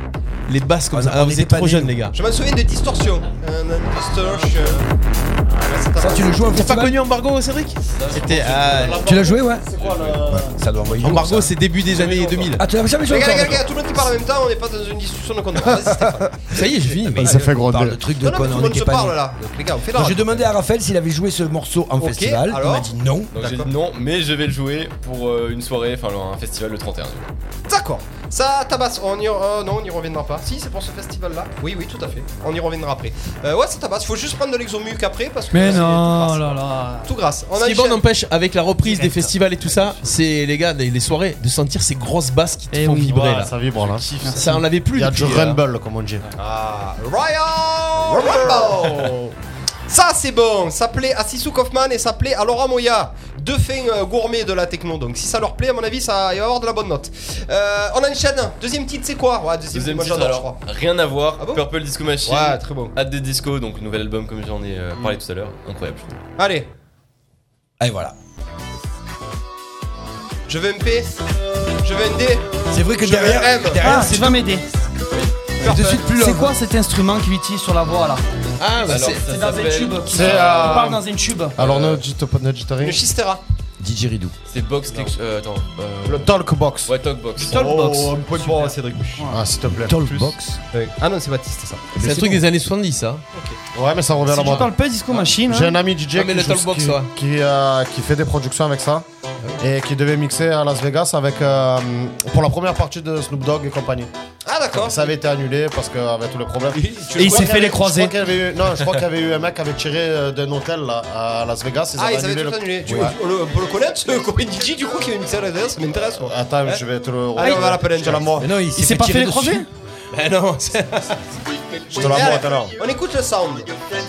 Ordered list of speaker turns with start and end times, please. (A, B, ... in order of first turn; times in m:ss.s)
0:00.5-0:02.1 A
0:00.9-0:01.9 B
0:02.1-0:04.9 C
0:05.5-0:06.4 C
0:06.0-0:07.0 B
0:06.5-0:09.1 A
0:07.9-0:10.3 D
0:08.8-0:10.6 E
0:09.0-0:09.7 B
0:10.3-0:11.5 B
0:11.0-0:12.6 A
0:12.3-0:12.5 C
0:12.6-0:13.8 B
0:13.0-0:16.7 C
0:16.5-0:17.4 A
0:16.9-0:19.2 B
0:17.1-0:18.0 E
0:18.2-0:20.5 C
0:19.9-0:23.3 B
0:22.0-0:23.7 C
0:23.3-0:27.3 D
0:27.7-0:38.0 C
0:35.5-0:37.1 F
0:37.6-0:43.5 A
0:38.8-0:39.8 C
0:42.7-0:43.3 F
0:43.1-0:44.0 E
0:43.8-0:44.4 D
0:44.2-0:44.6 F
0:44.3-0:45.6 A
0:44.9-0:46.2 E
0:46.4-0:49.2 C
0:49.9-1:00.6 C
0:59.7-1:06.2 D
1:01.4-1:01.7 C
1:02.2-1:02.9 C
1:06.4-1:06.7 C
1:07.8-1:08.1 B
1:10.5-1:11.2 C
1:11.8-1:14.0 C
1:12.7-1:14.4 B
1:13.8-1:14.6 F
1:15.1-1:15.5 D
1:15.6-1:16.1 C
1:15.6-1:16.5 B
1:16.0-1:18.2 F
1:18.6-1:19.3 A
1:18.9-1:20.8 D
1:19.2-1:21.6 F
1:20.1-1:21.0 E
1:20.3-1:20.9 C
1:21.6-1:23.0 E
1:21.6-1:22.0 D
1:22.8-1:23.4 C
1:23.8-1:24.3 B
1:24.5-1:26.3 D
1:26.0-1:26.9 E
1:26.8-1:29.2 D
1:27.4-1:29.4 F
1:27.4-1:28.2 E
1:28.4-1:28.9 C
1:29.3-1:30.0 E
1:29.7-1:30.6 B
1:30.7-1:31.9 C
1:32.0-1:32.4 B
1:32.0-1:33.2 A
1:33.7-1:34.7 E
1:34.3-1:35.8 F
1:35.4-1:39.0 E
1:36.1-1:37.1 A
1:39.6-1:44.1 E
1:44.4-1:45.1 C
1:44.7-1:53.1 E
1:46.7-1:47.8 C
1:47.2-1:48.1 F
1:52.0-1:56.8 C
1:52.8-1:53.1 B
1:56.1-1:58.5 E
1:57.3-1:58.4 C
1:57.4-1:57.7 F
1:58.4-1:59.6 B
1:58.7-1:59.7 F
2:00.1-2:01.2 A
2:01.9-2:02.8 E
2:01.9-2:03.7 C